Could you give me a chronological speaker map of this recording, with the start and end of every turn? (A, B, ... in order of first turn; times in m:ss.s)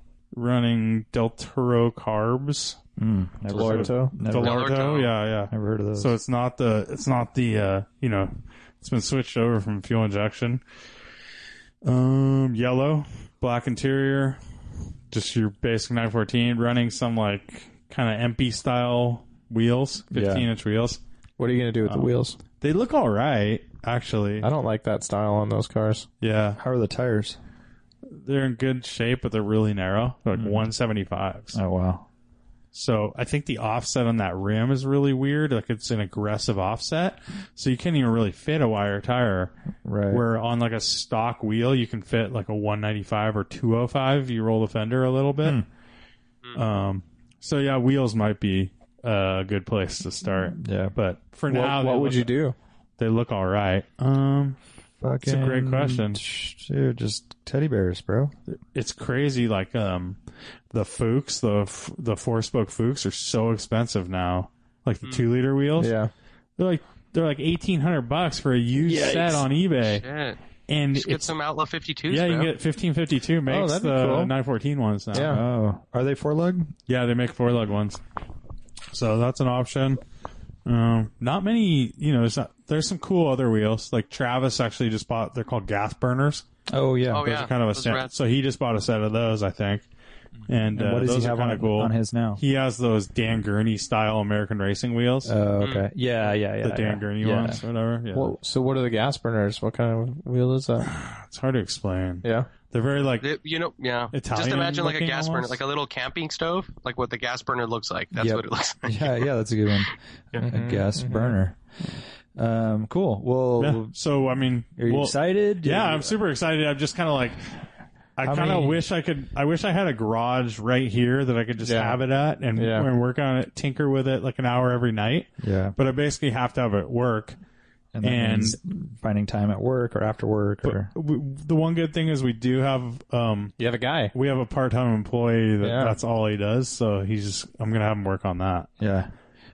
0:00.3-0:02.8 A
0:03.0-0:04.6 B
0:03.5-0:04.1 C
0:03.5-0:10.6 A
0:04.3-0:05.1 D
0:05.5-0:06.1 B
0:11.8-0:14.4 A
0:15.1-0:21.0 A
0:20.1-0:20.5 B
0:21.4-0:22.4 C
0:21.8-0:24.5 A
0:24.4-0:26.1 C
0:26.2-0:26.6 A
0:26.6-0:27.4 B
0:28.1-0:31.6 A
0:31.5-0:32.1 B
0:32.7-0:39.5 A
0:39.8-0:40.2 B
0:40.1-0:45.6 A
0:46.5-0:52.3 A
0:50.3-0:50.9 B
0:51.5-0:52.5 C
0:53.0-0:54.6 A
0:55.0-0:58.3 B
0:55.2-0:56.2 A
0:58.5-1:00.2 A
1:00.7-1:05.9 A
1:05.8-1:06.1 C
1:06.6-1:10.0 A
1:08.8-1:09.4 C
1:09.9-1:10.4 D
1:10.7-1:11.3 A
1:10.9-1:12.5 D
1:12.1-1:15.4 A
1:13.4-1:14.3 C
1:15.1-1:15.4 C
1:15.3-1:16.7 B
1:16.9-1:18.0 A
1:18.9-1:20.0 A
1:20.6-1:26.4 A
1:26.7-1:27.3 B
1:27.1-1:28.1 D
1:27.2-1:29.8 A
1:30.5-1:35.3 A
1:30.7-1:32.4 B
1:35.2-1:37.6 B
1:35.6-1:35.9 D
1:36.6-1:38.3 A
1:38.1-1:40.9 C
1:40.8-1:43.2 A
1:42.2-1:42.5 C
1:43.2-1:49.3 D
1:44.1-1:45.6 A
1:48.1-1:51.6 B
1:50.4-1:51.4 C
1:52.4-1:53.9 B
1:53.6-1:57.4 A
1:54.8-1:56.2 B
1:58.2-2:07.4 A
1:58.2-1:58.8 B
2:01.6-2:02.0 C
2:02.6-2:02.9 C
2:05.4-2:05.8 B
2:07.9-2:10.9 B
2:08.0-2:08.6 A
2:10.6-2:13.6 A
2:13.6-2:14.1 C
2:14.1-2:18.7 A
2:15.6-2:16.0 C
2:18.8-2:19.1 B